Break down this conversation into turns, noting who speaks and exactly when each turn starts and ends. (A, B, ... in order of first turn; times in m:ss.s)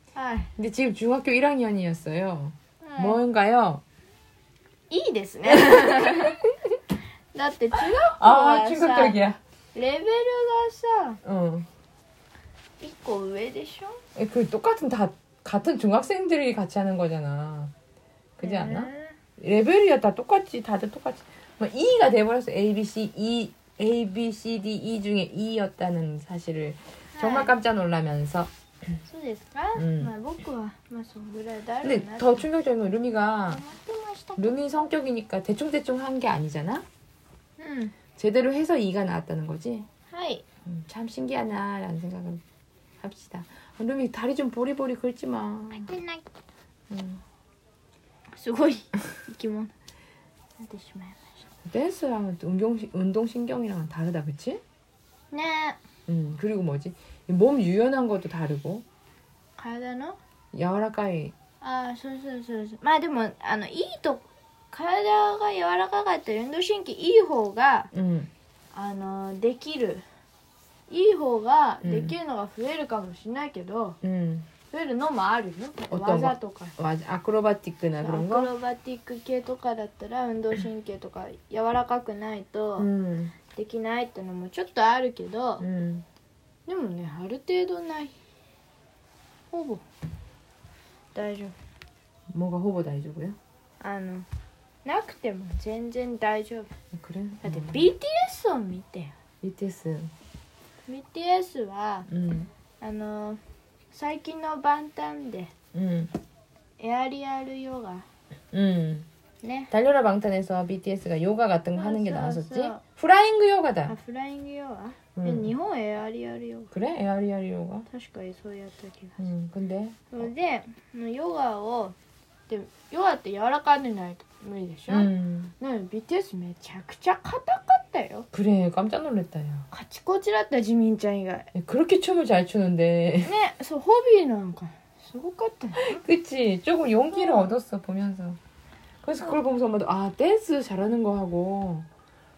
0:00.2-0:00.5 A
0:00.6-0:03.8 B
0:02.8-0:03.2 A
0:04.9-0:06.4 A
0:05.5-0:06.5 B
0:07.3-0:09.2 A
0:07.7-0:09.4 B
0:09.7-0:11.2 A
0:11.2-0:11.7 B
0:12.8-0:14.0 A
0:14.2-0:17.7 B
0:18.4-0:28.5 B
0:18.4-0:19.2 A
0:27.2-0:27.6 A
0:29.1-0:32.4 A
0:29.8-0:30.1 B
0:31.8-0:33.6 B
0:33.5-0:34.6 A
0:34.4-0:36.8 B
0:37.6-0:38.0 A
0:38.2-0:39.9 B
0:40.1-0:40.4 A
0:40.7-0:42.4 B
0:43.0-0:45.9 B
0:45.7-0:46.2 A
0:46.9-0:47.2 B
0:48.3-0:49.7 A
0:50.6-0:51.4 A
0:51.6-0:54.6 B
0:55.3-0:55.8 A
0:56.1-0:58.8 B
0:59.6-1:00.2 A
1:00.5-1:01.3 B
1:01.6-1:07.9 A
1:07.9-1:08.3 B
1:08.7-1:10.0 A
1:10.9-1:14.0 A
1:11.8-1:12.2 B
1:14.0-1:14.5 B
1:14.7-1:16.8 A
1:15.9-1:18.5 B
1:18.0-1:22.9 A
1:22.8-1:23.4 B
1:23.5-1:25.6 A
1:25.6-1:26.0 B
1:26.7-1:28.2 A
1:29.5-1:29.8 A
1:31.1-1:31.6 A
1:32.3-1:33.4 B
1:33.8-1:34.3 A
1:34.8-1:36.7 A
1:36.9-1:37.9 B
1:37.4-1:39.1 A
1:39.4-1:40.1 B
1:40.9-1:42.1 A
1:42.1-1:42.5 B
1:42.8-1:43.4 A
1:43.9-1:45.5 A
1:45.7-1:46.1 B
1:46.8-1:48.1 A
1:48.5-1:49.1 B
1:49.4-1:49.7 A
1:49.7-1:54.0 B
1:51.8-1:52.8 A
1:53.9-1:56.7 A
1:55.2-1:55.5 B
1:56.7-1:57.9 B
1:57.9-1:59.2 A
1:59.2-2:00.3 B
2:00.1-2:02.0 A
2:02.5-2:08.3 A
2:04.9-2:05.5 B
2:08.3-2:09.7 B
2:09.7-2:11.5 A
2:11.5-2:13.3 B
2:13.2-2:16.0 A
2:15.8-2:18.4 B
2:17.1-2:17.6 A
2:19.0-2:21.9 B